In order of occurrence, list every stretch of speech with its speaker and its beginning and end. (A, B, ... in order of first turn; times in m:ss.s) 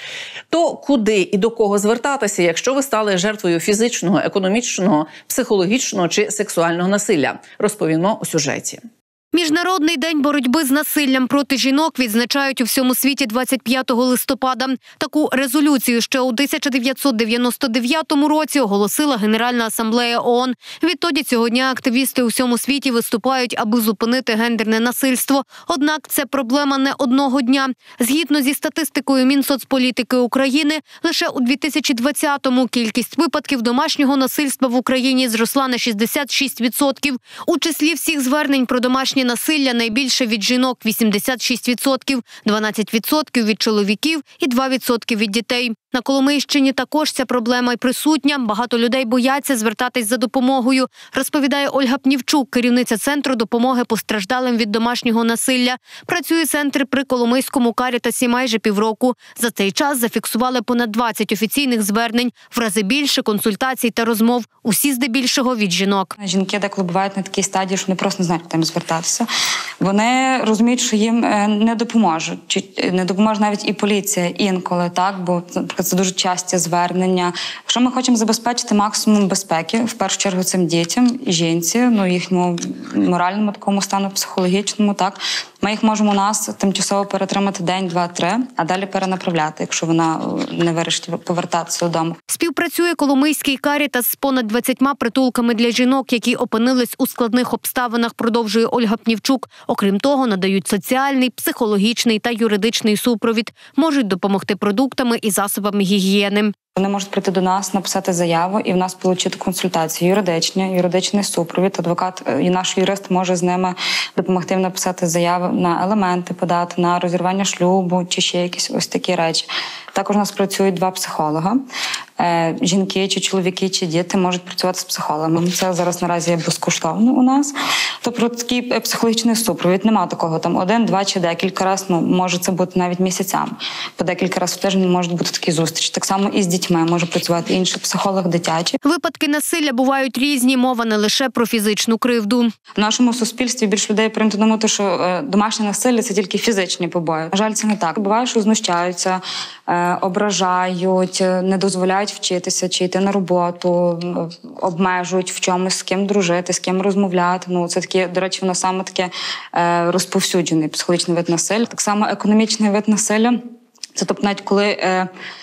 0:00.5-0:08.8 A
0:09.3-1:06.1 B
1:06.2-1:09.3 C
1:09.8-1:32.2 C
1:32.3-1:46.5 B
1:46.8-2:01.6 C
2:02.2-2:18.8 C
2:18.8-2:22.5 B
2:22.8-2:43.4 C
2:44.0-2:45.1 C